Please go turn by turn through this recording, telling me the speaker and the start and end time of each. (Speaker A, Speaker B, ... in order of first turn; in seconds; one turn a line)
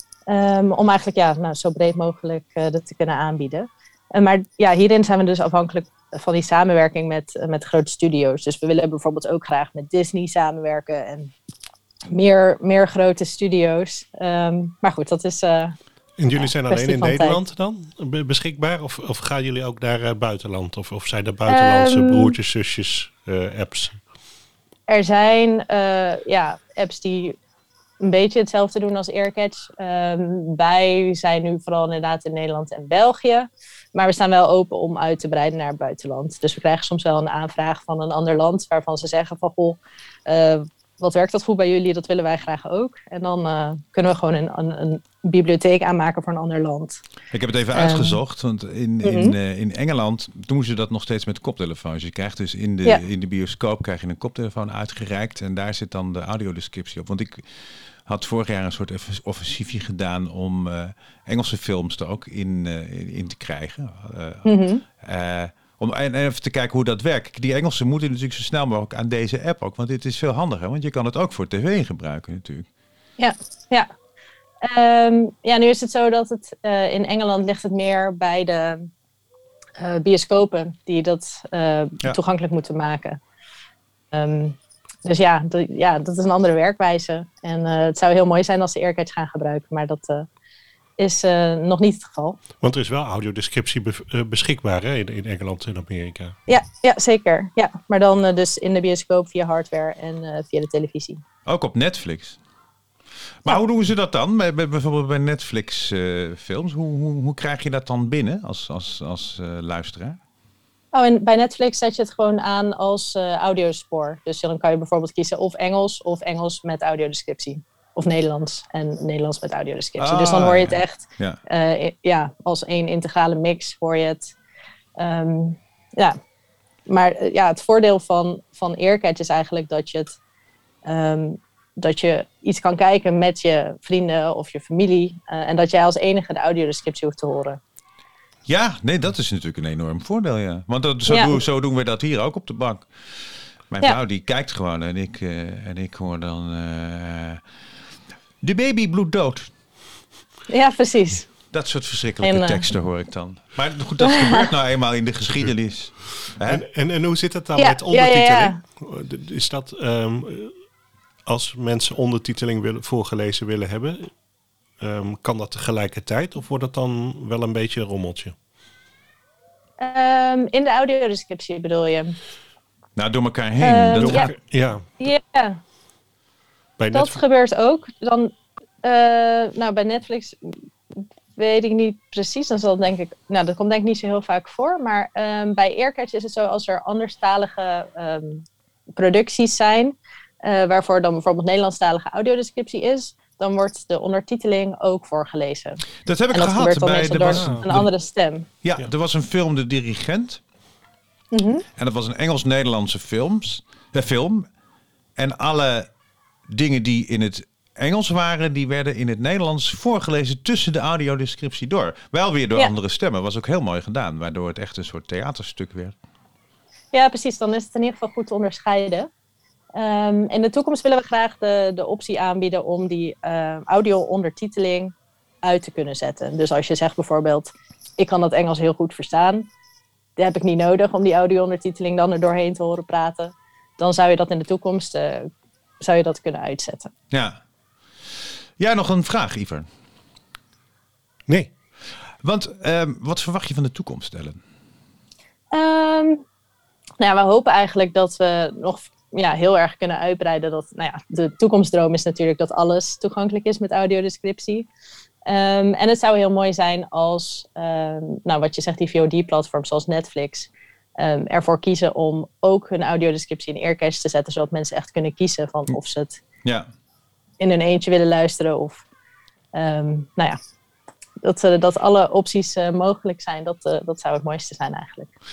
Speaker A: 0.3-11.3
Speaker A: 12.1-15.7
Speaker B: 16.2-24.0
Speaker A: 16.4-17.4
Speaker A: 21.5-22.4
Speaker A: 24.9-27.4
Speaker A: 28.0-47.0
Speaker C: 47.3-57.5
Speaker A: 47.7-48.2
Speaker A: 49.0-49.3
Speaker C: 58.1-72.7
Speaker A: 64.4-64.8
Speaker A: 73.2-73.9
Speaker A: 74.6-78.9
Speaker A: 79.8-83.2
Speaker A: 84.1-90.3
Speaker A: 91.0-92.4
Speaker B: 92.6-96.3
Speaker A: 96.5-101.2
Speaker C: 101.5-102.4
Speaker C: 103.4-110.2
Speaker A: 110.9-124.3
Speaker C: 120.0-121.4
Speaker A: 125.0-126.2
Speaker A: 126.9-130.1
Speaker A: 130.8-137.6
Speaker C: 138.5-142.9
Speaker A: 141.1-141.4
Speaker C: 143.7-147.4
Speaker C: 148.4-149.5
Speaker A: 150.5-151.3
Speaker C: 151.5-156.6
Speaker A: 152.2-152.6
Speaker A: 154.1-154.4
Speaker B: 156.5-160.6
Speaker A: 157.6-158.6
Speaker B: 161.2-164.1
Speaker B: 164.8-168.3
Speaker A: 169.8-172.2
Speaker C: 173.0-174.3
Speaker A: 173.6-174.3
Speaker B: 174.0-174.8
Speaker A: 175.0-175.6
Speaker B: 176.8-177.2
Speaker A: 176.9-180.4
Speaker A: 181.4-188.4
Speaker A: 188.9-195.8
Speaker C: 196.1-197.9
Speaker A: 196.3-198.5
Speaker B: 197.3-197.7
Speaker C: 198.6-200.4
Speaker A: 201.3-201.6
Speaker C: 201.8-204.5
Speaker C: 205.2-205.9
Speaker C: 206.5-215.9
Speaker A: 216.9-219.1
Speaker A: 219.7-229.5
Speaker A: 230.2-235.3
Speaker A: 235.8-236.9
Speaker C: 237.1-237.4
Speaker C: 238.6-239.7
Speaker C: 242.2-244.4
Speaker A: 245.5-246.2
Speaker A: 247.0-254.7
Speaker A: 255.2-266.2
Speaker A: 267.4-268.8
Speaker A: 269.5-270.4
Speaker A: 271.2-275.1